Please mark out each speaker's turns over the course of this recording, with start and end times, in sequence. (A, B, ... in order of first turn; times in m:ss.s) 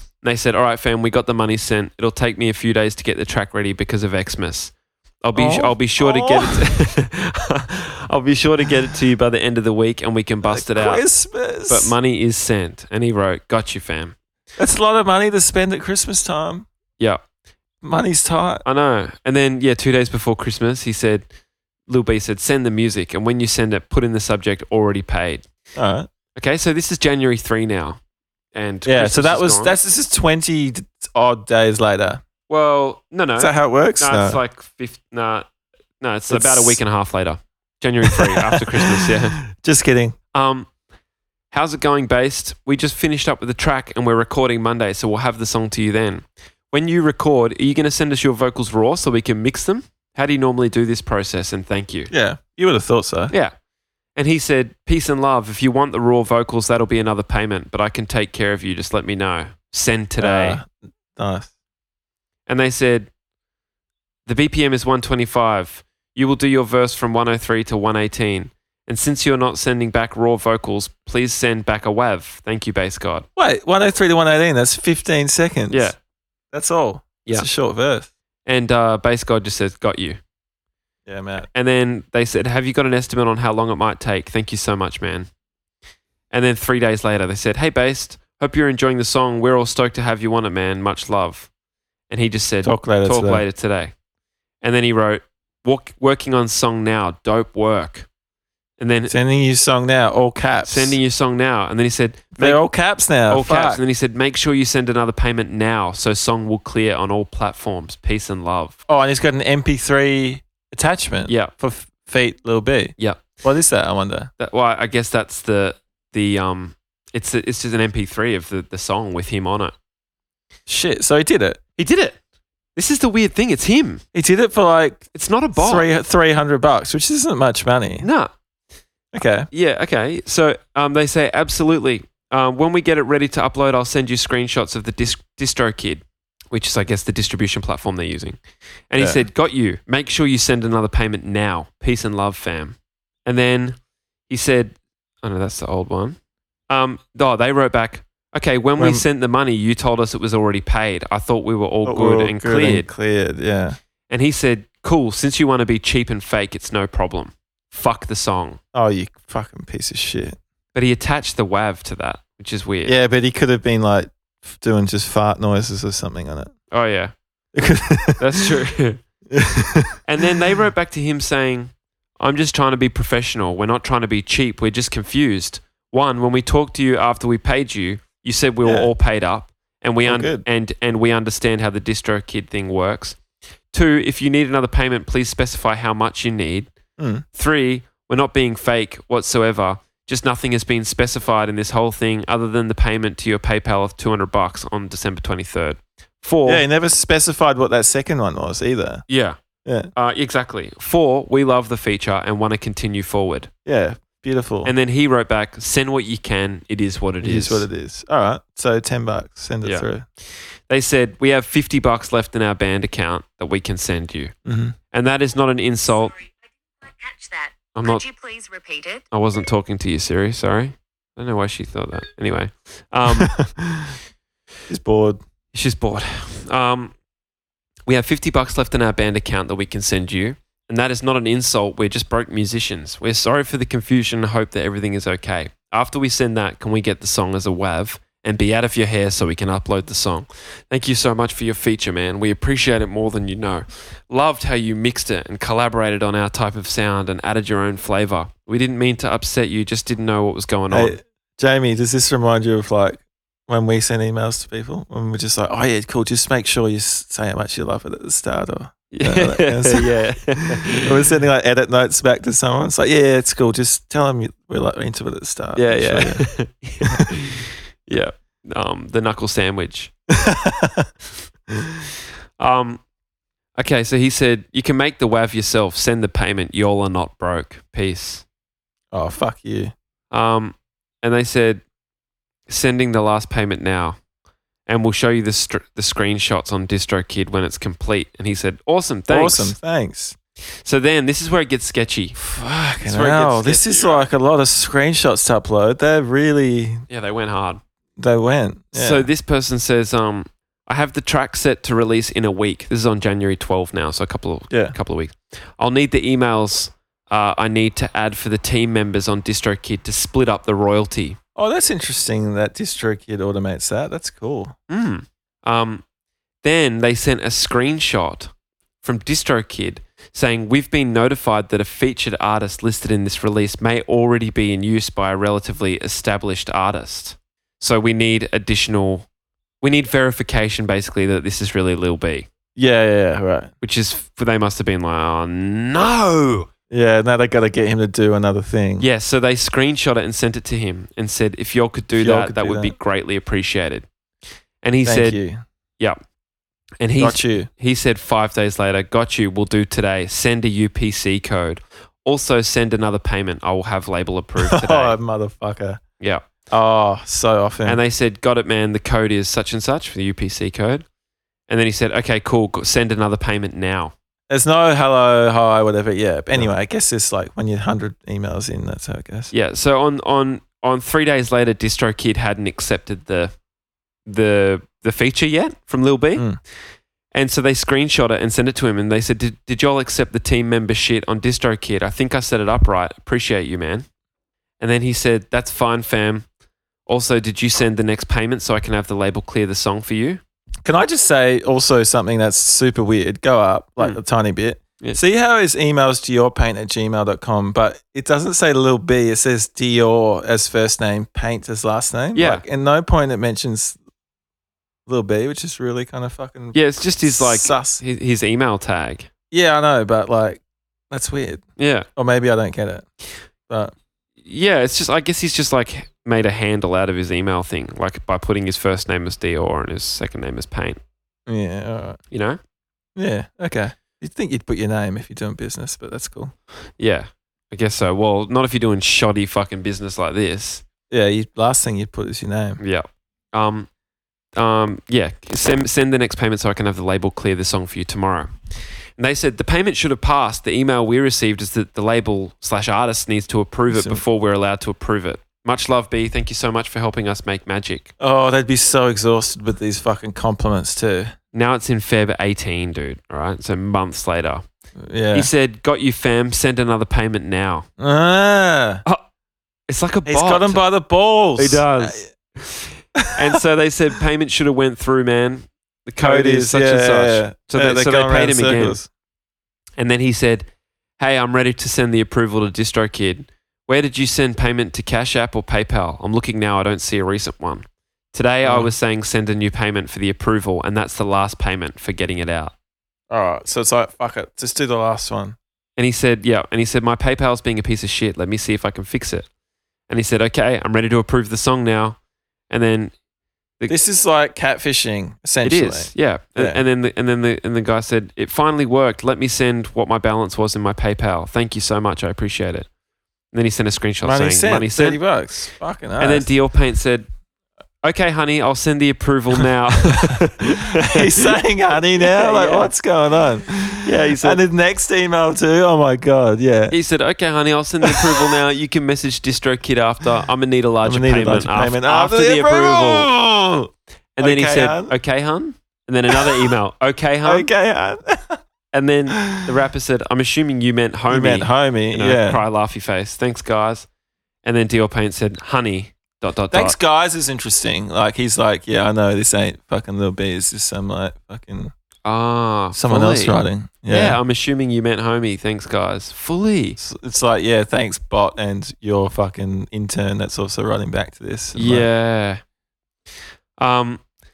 0:00.2-0:11.0 A
0:05.3-0:06.7 B
0:10.4-0:11.9 B
0:11.7-0:14.1 A
0:14.6-0:16.7 B
0:17.8-0:18.6 B
0:18.6-0:21.3 A
0:21.9-0:25.4 A
0:25.7-0:26.1 B
0:26.3-0:28.0 A
0:28.5-0:29.8 A
0:28.8-0:32.2 B
0:32.5-0:35.5 A
0:33.4-0:34.4 B
0:36.0-0:39.4 A
0:36.3-0:36.8 B
0:38.0-0:40.2 B
0:40.3-0:40.7 A
0:41.5-0:52.1 A
0:52.1-0:53.3 B
0:54.2-1:00.6 A
1:00.2-1:01.5 B
1:02.5-1:03.1 A
1:04.2-1:13.2 A
1:13.4-1:15.9 B
1:15.7-1:16.0 A
1:16.5-1:18.1 B
1:18.4-1:20.2 A
1:21.0-1:21.5 B
1:21.5-1:25.3 A
1:26.3-1:31.5 A
1:32.1-1:33.9 A
1:32.6-1:33.4 B
1:34.6-1:38.1 A
1:38.8-1:39.1 A
1:39.1-1:41.0 B
1:40.6-1:42.6 A
1:42.4-1:43.8 B
1:43.3-1:48.8 A
1:48.9-1:54.3 B
1:51.3-1:51.5 A
1:53.0-1:53.2 A
1:54.4-1:59.7 A
2:00.7-2:01.6 B
2:01.8-2:02.2 A
2:02.7-2:04.0 A
2:04.1-2:08.1 B
2:05.1-2:05.8 A
2:08.0-2:08.3 A
2:09.1-2:09.5 B
2:09.5-2:18.4 A
2:18.9-2:23.8 A
2:19.0-2:19.2 B
2:24.3-2:26.2 A
2:26.7-2:32.9 A
2:28.8-2:29.0 B
2:31.8-2:33.8 B
2:34.1-2:38.6 A
2:38.7-2:40.4 B
2:40.7-2:43.0 A
2:42.8-2:46.5 B
2:46.7-2:47.1 A
2:47.5-2:48.5 B
2:48.2-2:49.0 A
2:49.3-2:50.2 B
2:50.0-3:03.2 A
2:58.6-2:58.9 B
3:00.0-3:00.4 B
3:03.7-3:06.7 A
3:07.0-3:07.2 B
3:07.3-3:16.6 A
3:16.4-3:19.0 B
3:19.1-3:19.4 A
3:19.6-3:19.9 B
3:19.9-3:23.5 A
3:23.6-3:24.7 B
3:24.6-3:27.7 A
3:27.2-3:30.0 B
3:30.7-3:34.3 A
3:34.4-3:34.8 B
3:34.9-3:36.1 A
3:35.9-3:39.0 C
3:37.7-3:38.0 A
3:39.1-3:43.3 A
3:43.1-3:43.9 B
3:44.7-3:45.2 B
3:45.5-3:46.9 A
3:47.9-4:11.0 A
4:10.7-4:26.3 B
4:18.9-4:20.9 A
4:25.6-4:29.9 A
4:30.1-4:30.9 B
4:32.4-4:32.8 A
4:33.6-4:38.2 A
4:38.9-4:39.7 B
4:40.1-4:41.6 A
4:42.5-4:44.0 A
4:44.7-4:49.5 A
4:49.1-4:50.2 B
4:50.6-4:52.2 A
4:52.2-4:56.8 B
4:52.8-4:54.1 A
4:56.9-4:57.6 A
4:58.0-4:59.1 B
4:58.7-5:11.2 A
5:04.5-5:04.8 B
5:11.4-5:14.5 B
5:14.7-5:15.8 A
5:16.4-5:18.3 A
5:18.8-5:29.0 A
5:29.6-5:32.3 A
5:32.6-5:33.5 B
5:33.6-5:36.5 A
5:36.7-5:38.9 B
5:38.8-5:43.8 A
5:42.0-5:42.7 B
5:44.6-5:45.2 A
5:44.8-5:45.4 B
5:46.8-5:55.0 A
5:47.0-5:47.5 B
5:54.4-5:55.8 B
5:56.0-5:56.2 A
5:56.5-5:57.8 B
5:57.6-6:00.8 A
6:01.5-6:03.9 A
6:04.3-6:09.3 B
6:09.3-6:13.3 A
6:14.0-6:16.3 A
6:17.1-6:23.8 A
6:24.6-6:26.2 A
6:26.9-6:30.2 A
6:30.6-6:43.8 B
6:42.1-6:42.4 A
6:44.9-6:47.8 B
6:46.5-6:49.1 A
6:49.3-6:51.4 B
6:51.6-6:51.9 A
6:52.0-6:52.8 B
6:53.5-6:53.7 B
6:54.2-7:00.8 A
7:01.3-7:02.0 B
7:02.1-7:02.4 A
7:03.0-7:06.3 B
7:06.8-7:10.6 A
7:10.9-7:12.6 B
7:12.6-7:13.7 A
7:14.4-7:18.3 A
7:19.0-7:27.9 A
7:23.7-7:24.0 B
7:28.0-7:31.1 B
7:31.3-7:34.4 A
7:34.8-7:35.3 B
7:35.1-7:37.7 A
7:37.8-7:38.8 B
7:39.7-7:40.6 A
7:40.0-7:42.1 B
7:41.4-7:48.8 A
7:43.0-7:43.3 B
7:46.0-7:48.9 B
7:49.8-8:02.5 A
7:58.4-7:58.7 B
8:03.1-8:05.4 B
8:05.8-8:09.3 A
8:09.9-8:12.0 A
8:12.5-8:12.9 A
8:13.7-8:16.6 B
8:15.4-8:22.7 A
8:23.3-8:25.0 A
8:24.0-8:26.3 B
8:26.0-8:27.1 A
8:27.8-8:31.4 A
8:30.8-8:36.7 B
8:32.0-8:32.7 A
8:33.8-8:34.4 A
8:36.7-8:43.1 A
8:37.8-8:38.3 B
8:40.8-8:44.9 B
8:44.2-8:47.5 A
8:46.1-8:46.5 B
8:47.2-8:48.4 B
8:48.7-8:53.9 A
8:49.1-8:49.4 B
8:51.1-8:52.4 B
8:54.4-8:56.8 A
8:56.5-9:01.7 B
9:02.0-9:06.8 A
9:02.7-9:04.2 B
9:06.8-9:11.9 B
9:11.5-9:12.4 A
9:13.6-9:14.0 A